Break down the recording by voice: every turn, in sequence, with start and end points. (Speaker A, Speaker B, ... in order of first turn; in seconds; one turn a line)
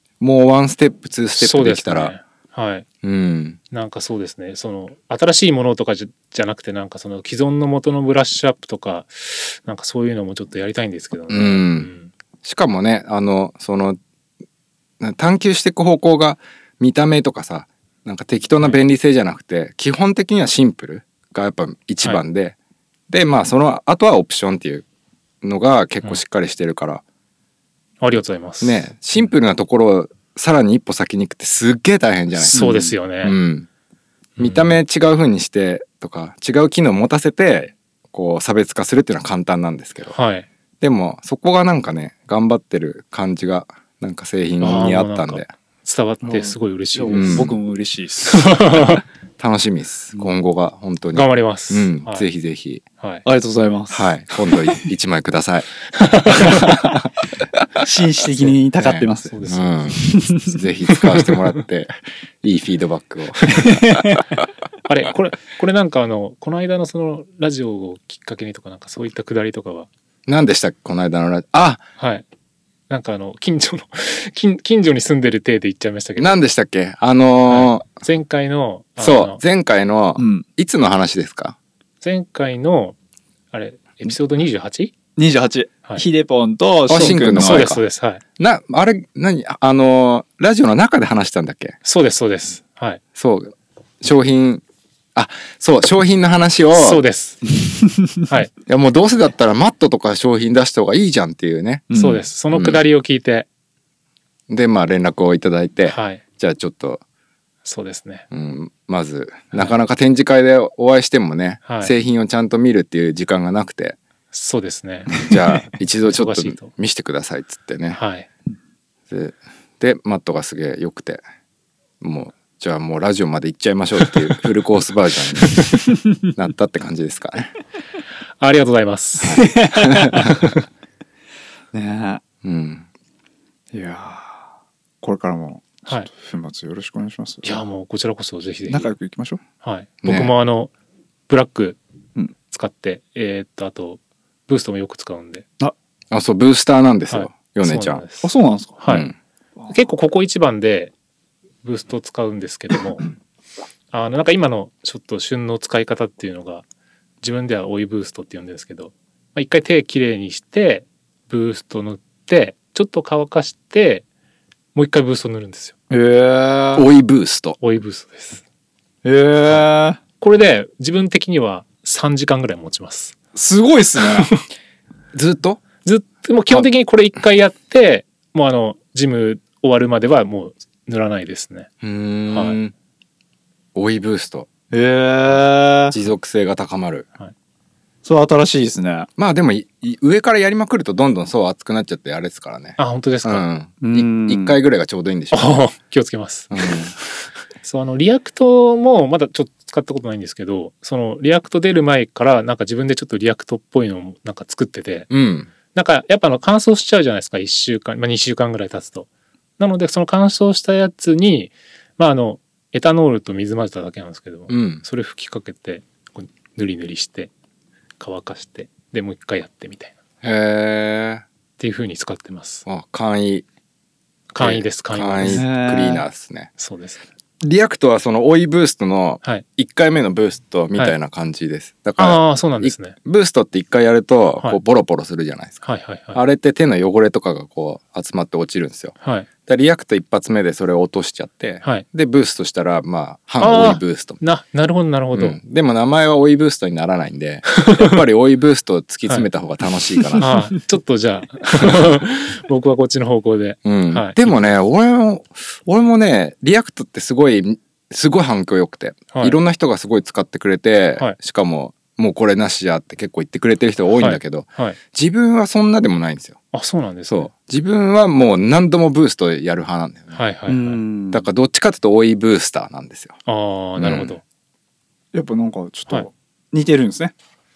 Speaker A: 0.2-2.1
Speaker B: 1.4-2.9
Speaker A: 3.0-3.6
Speaker B: 3.7-12.1
Speaker A: 11.3-11.9
Speaker A: 12.4-14.0
Speaker A: 15.0-22.6
Speaker A: 23.1-24.9
Speaker A: 25.4-27.0
Speaker B: 28.0-28.9
Speaker A: 28.6-33.7
Speaker B: 32.5-33.4
Speaker B: 34.4-34.8
Speaker A: 34.4-40.1
Speaker B: 40.1-40.5
Speaker A: 40.8-45.5
Speaker B: 44.6-47.6
Speaker C: 46.2-48.6
Speaker A: 47.1-47.5
Speaker B: 48.2-49.0
Speaker A: 49.4-52.8
Speaker B: 51.1-52.3
Speaker C: 53.3-54.1
Speaker A: 53.9-55.7
Speaker B: 56.0-56.6
Speaker A: 56.3-57.1
Speaker C: 57.8-59.3
Speaker A: 58.8-64.2
Speaker B: 59.3-59.7
Speaker C: 60.0-60.5
Speaker C: 63.6-64.2
Speaker B: 64.9-69.9
Speaker A: 70.3-71.8
Speaker B: 72.0-72.2
Speaker B: 72.9-76.4
Speaker A: 76.2-77.9
Speaker B: 77.5-79.4
Speaker A: 79.0-81.6
Speaker C: 80.2-80.5
Speaker B: 82.0-83.0
Speaker B: 83.5-84.9
Speaker C: 85.2-87.7
Speaker A: 86.9-87.8
Speaker B: 86.9-88.2
Speaker A: 88.4-91.8
Speaker B: 91.8-93.0
Speaker A: 93.2-94.6
Speaker A: 95.2-97.0
Speaker B: 96.7-97.5
Speaker A: 98.7-101.9
Speaker C: 101.9-102.2
Speaker B: 101.9-103.5
Speaker A: 102.5-102.8
Speaker A: 104.5-107.0
Speaker B: 105.9-106.2
Speaker B: 107.7-108.3
Speaker A: 108.3-114.0
Speaker B: 109.5-109.8
Speaker B: 111.7-111.9
Speaker B: 114.3-115.3
Speaker A: 115.1-118.0
Speaker B: 116.0-116.7
Speaker B: 117.9-118.3
Speaker A: 119.1-121.2
Speaker A: 122.0-127.5
Speaker B: 128.4-130.5
Speaker A: 129.2-130.4
Speaker C: 129.4-130.3
Speaker C: 131.7-132.2
Speaker A: 132.4-132.9
Speaker C: 133.7-134.5
Speaker C: 135.0-137.6
Speaker B: 137.4-138.9
Speaker C: 138.7-139.4
Speaker B: 139.6-140.7
Speaker A: 140.0-140.3
Speaker B: 141.3-141.8
Speaker B: 142.5-145.5
Speaker A: 146.1-148.0
Speaker B: 147.1-149.1
Speaker C: 148.2-148.8
Speaker A: 148.9-149.1
Speaker B: 149.7-150.9
Speaker B: 151.6-153.1
Speaker B: 153.9-156.7
Speaker B: 157.2-164.1
Speaker B: 164.8-165.7
Speaker C: 165.9-166.9
Speaker A: 166.8-167.6
Speaker B: 167.6-168.4
Speaker C: 169.0-170.0
Speaker B: 170.2-173.2
Speaker C: 173.3-174.3
Speaker A: 175.1-175.6
Speaker B: 175.8-181.7
Speaker A: 181.8-182.7
Speaker B: 182.3-182.6
Speaker A: 183.8-184.5
Speaker C: 184.7-186.0
Speaker A: 185.9-187.1
Speaker C: 188.0-189.1
Speaker A: 189.2-195.6
Speaker B: 192.8-193.4
Speaker C: 193.8-194.6
Speaker B: 195.3-196.6
Speaker A: 196.5-196.9
Speaker B: 197.6-205.1
Speaker A: 205.1-205.5
Speaker B: 205.7-209.1
Speaker B: 209.6-217.3
Speaker A: 214.5-214.8
Speaker B: 218.0-219.9
Speaker A: 220.2-221.2
Speaker B: 221.6-222.7
Speaker A: 222.7-223.5
Speaker B: 224.3-225.4
Speaker A: 224.4-226.5
Speaker C: 225.2-226.1
Speaker B: 226.6-227.0
Speaker A: 227.4-238.9
Speaker B: 232.0-233.0
Speaker B: 235.6-236.2
Speaker B: 239.0-239.3
Speaker A: 239.5-244.2
Speaker B: 243.4-245.4
Speaker A: 245.1-250.4
Speaker B: 250.2-254.4
Speaker A: 253.7-266.4
Speaker B: 259.1-259.4
Speaker B: 263.9-264.8
Speaker B: 266.5-267.3
Speaker A: 267.1-270.2
Speaker B: 270.1-270.8
Speaker C: 270.5-271.2
Speaker A: 271.1-273.2
Speaker B: 273.3-274.2
Speaker A: 273.8-274.2
Speaker C: 275.1-277.1